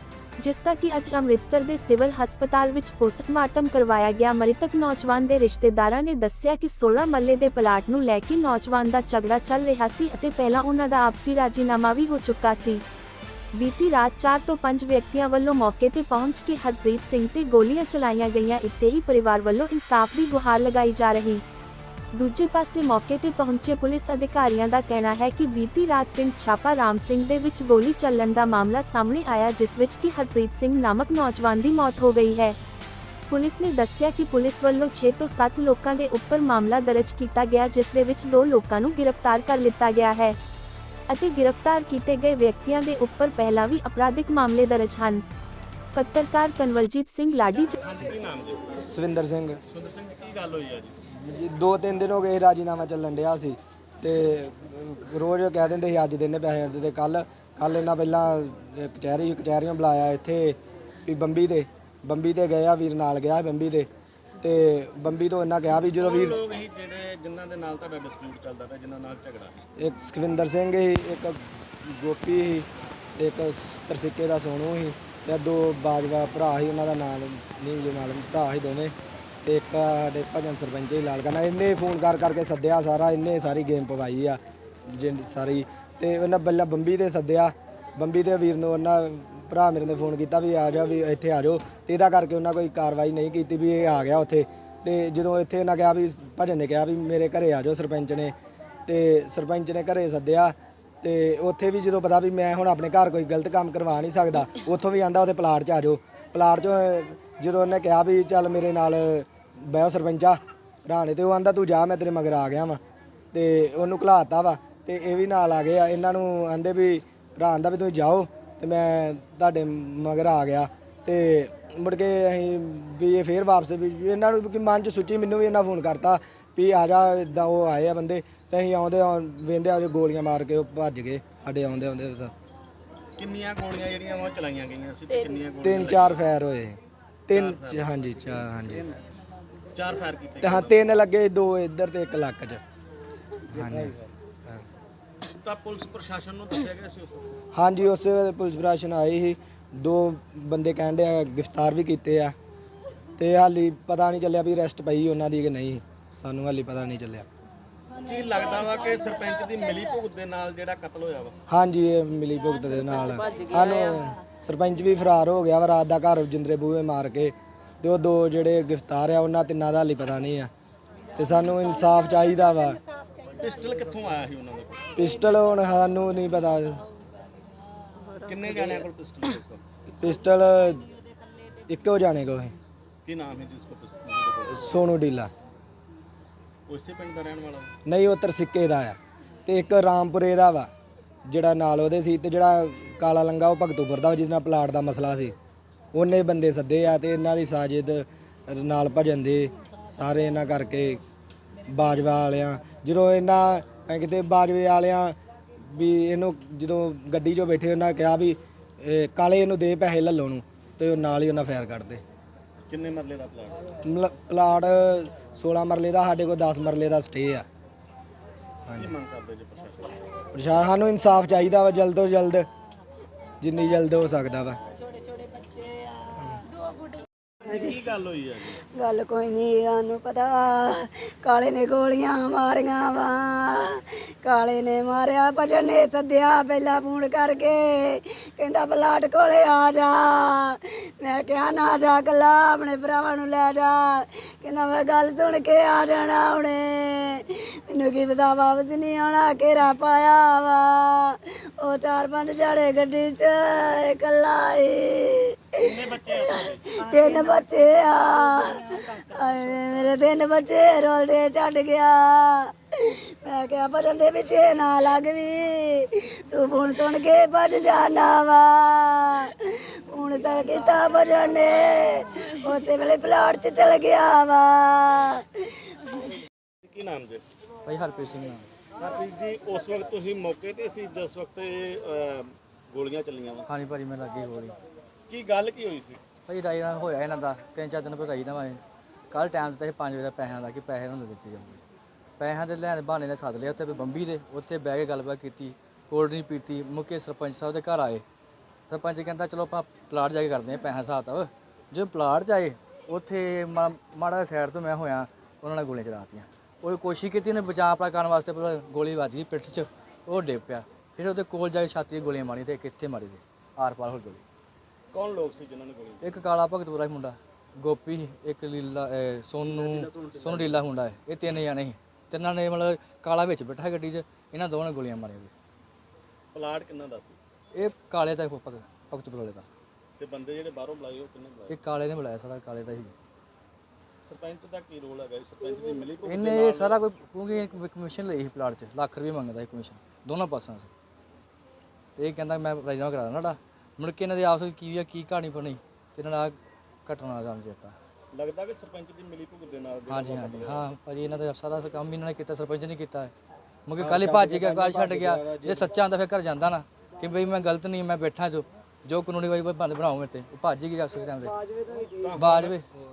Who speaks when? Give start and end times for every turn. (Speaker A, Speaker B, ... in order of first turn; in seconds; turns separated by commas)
Speaker A: 0.4-12.8, Speaker A: 13.5-21.4, Speaker A: 22.1-32.5, Speaker A: 33.3-40.4, Speaker A: 41.1-45.2, Speaker A: 45.9-47.7, Speaker B: 47.6-48.8, Speaker C: 48.9-49.6, Speaker B: 49.7-51.0, Speaker C: 51.1-63.9, Speaker C: 64.4-66.4, Speaker B: 66.0-69.6, Speaker C: 69.8-78.9, Speaker C: 79.4-98.3, Speaker C: 98.9-112.8, Speaker C: 113.3-132.3, Speaker B: 133.2-136.2, Speaker C: 135.6-138.9, Speaker B: 137.3-138.4, Speaker B: 139.8-140.9, Speaker C: 140.4-142.6, Speaker C: 143.5-144.6, Speaker B: 145.2-147.3, Speaker C: 147.5-152.3, Speaker C: 153.2-157.3, Speaker B: 158.0-161.3, Speaker C: 161.5-170.5, Speaker C: 171.2-172.8, Speaker B: 173.3-174.8, Speaker C: 174.9-176.8, Speaker B: 178.2-179.6, Speaker C: 180.0-180.9, Speaker C: 181.7-182.6, Speaker B: 183.0-184.8, Speaker C: 184.5-185.3, Speaker B: 186.7-187.7, Speaker C: 187.8-190.7, Speaker C: 191.3-195.3, Speaker C: 195.9-201.0, Speaker C: 201.7-205.1, Speaker C: 205.7-212.0, Speaker B: 212.7-213.6, Speaker C: 213.8-217.4, Speaker B: 218.7-219.9, Speaker C: 220.3-222.5, Speaker C: 223.4-224.6, Speaker B: 227.5-228.6, Speaker D: 227.5-227.8, Speaker D: 228.7-276.1, Speaker B: 255.6-256.6, Speaker B: 276.6-277.2, Speaker E: 277.6-278.5, Speaker B: 278.8-283.4, Speaker E: 283.5-284.6, Speaker B: 285.1-286.0, Speaker E: 286.3-291.6, Speaker E: 292.2-298.0, Speaker E: 298.7-314.2, Speaker B: 314.9-316.0, Speaker E: 316.0-325.3, Speaker B: 319.5-320.5, Speaker B: 326.3-327.2, Speaker E: 327.5-329.5, Speaker B: 330.0-331.6, Speaker E: 331.5-332.9, Speaker B: 334.0-336.8, Speaker E: 336.0-340.7, Speaker E: 341.9-347.8, Speaker B: 348.1-350.6, Speaker E: 349.9-353.1, Speaker E: 353.7-361.4, Speaker C: 353.8-355.7, Speaker B: 362.0-362.6, Speaker E: 362.2-362.6